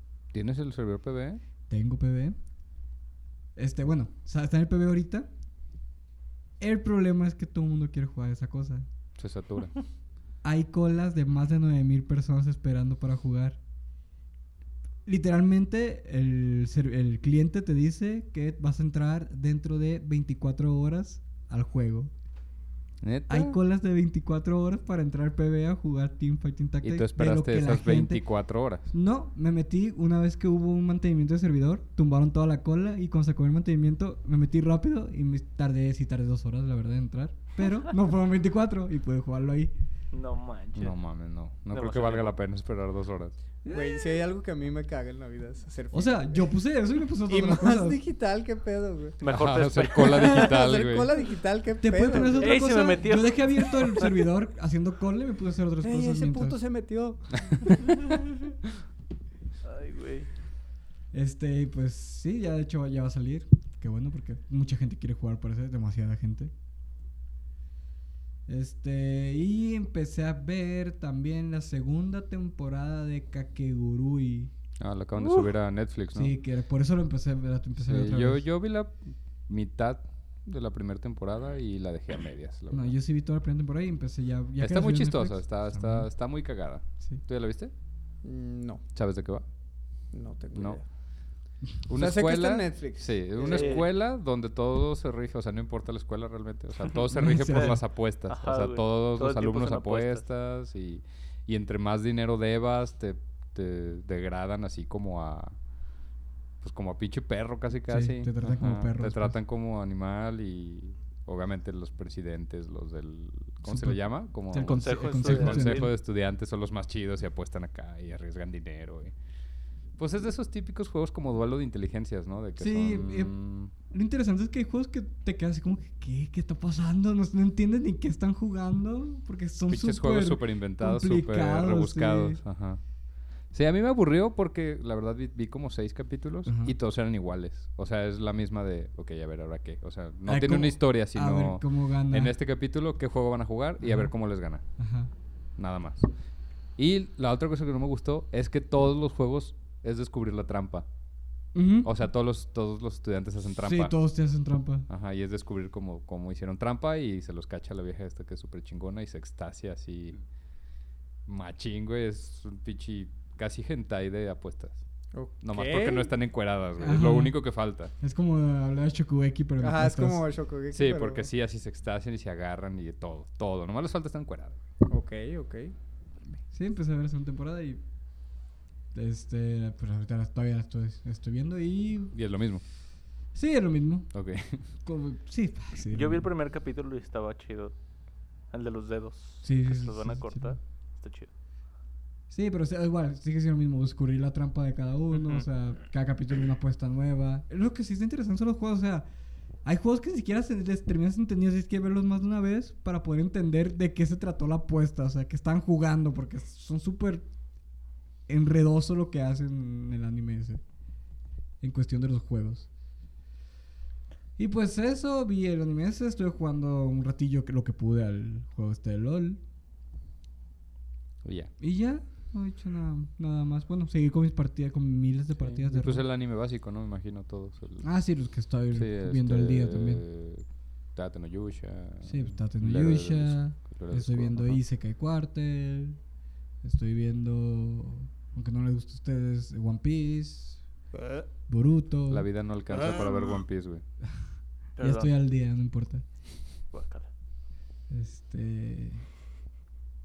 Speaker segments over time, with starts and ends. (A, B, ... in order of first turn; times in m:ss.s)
0:00.3-0:01.4 A
0:01.7-0:02.4 B
0:03.6-0:05.3 B
0:06.6-0:08.9 B
0:09.2-0:09.8 A
0:10.4-0:13.6 B
0:15.1-0:22.1 B
0:23.0-0:23.6 A
0:23.3-0:28.2 B
0:26.8-0:28.9 A
0:28.9-0:39.7 B
0:40.1-0:41.0 C
0:40.8-0:43.4 A
0:41.7-0:42.3 C
0:43.6-0:44.2 B
0:43.7-0:46.6 D
0:45.9-0:48.0 B
0:47.3-0:49.2 D
0:49.2-0:50.6 C
0:49.3-0:51.1 A
0:49.9-0:53.2 D
0:51.8-0:56.6 B
0:52.4-0:54.2 C
0:55.8-0:58.1 D
0:59.6-1:00.3 C
1:01.1-1:06.5 B
1:08.5-1:14.5 B
1:14.8-1:16.3 A
1:16.1-1:18.5 B
1:17.8-1:22.9 A
1:22.7-1:26.1 B
1:24.6-1:27.7 A
1:28.2-1:28.8 D
1:28.9-1:29.4 A
1:30.1-1:30.9 D
1:30.5-1:30.8 A
1:31.9-1:45.6 A
1:31.9-1:33.9 D
1:33.4-1:33.9 C
1:37.1-1:37.8 B
1:37.3-1:37.8 C
1:38.3-1:40.2 C
1:46.6-1:59.2 A
1:47.9-1:49.4 B
1:53.6-1:55.9 B
1:54.7-1:55.8 C
2:00.0-2:03.7 A
2:02.6-2:12.4 B
2:09.7-2:12.8 A
2:13.4-2:24.6 A
2:16.5-2:16.7 B
2:20.3-2:22.3 B
2:23.8-2:24.1 B
2:24.8-2:25.1 B
2:25.6-2:26.1 A
2:26.8-2:30.9 A
2:31.5-2:32.0 B
2:31.8-2:33.9 A
2:33.6-2:34.9 B
2:34.9-2:40.2 A
2:41.3-2:44.8 A
2:45.1-2:46.1 D
2:45.4-2:47.9 A
2:46.8-2:47.4 B
2:48.0-2:50.2 B
2:49.6-2:51.3 D
2:50.7-2:54.6 A
2:54.9-2:55.7 D
2:56.5-2:57.8 B
2:58.9-3:02.2 B
3:02.1-3:02.6 A
3:03.3-3:04.1 B
3:04.1-3:04.7 A
3:04.8-3:06.3 B
3:05.9-3:07.7 C
3:08.5-3:11.3 C
3:09.4-3:10.6 B
3:12.3-3:19.1 B
3:15.2-3:15.4 C
3:19.6-3:27.2 B
3:28.3-3:30.6 B
3:31.6-3:32.7 B
3:34.4-3:39.4 B
3:41.2-3:41.5 A
3:41.6-3:46.0 B
3:45.4-3:47.9 A
3:47.8-3:50.0 B
3:48.7-3:54.6 A
3:52.0-3:56.0 B
3:56.6-4:00.6 B
4:00.9-4:01.3 D
4:01.5-4:02.3 B
4:02.1-4:03.8 A
4:02.7-4:03.4 D
4:04.8-4:05.1 C
4:04.8-4:06.0 B
4:06.7-4:07.1 C
4:07.9-4:09.1 B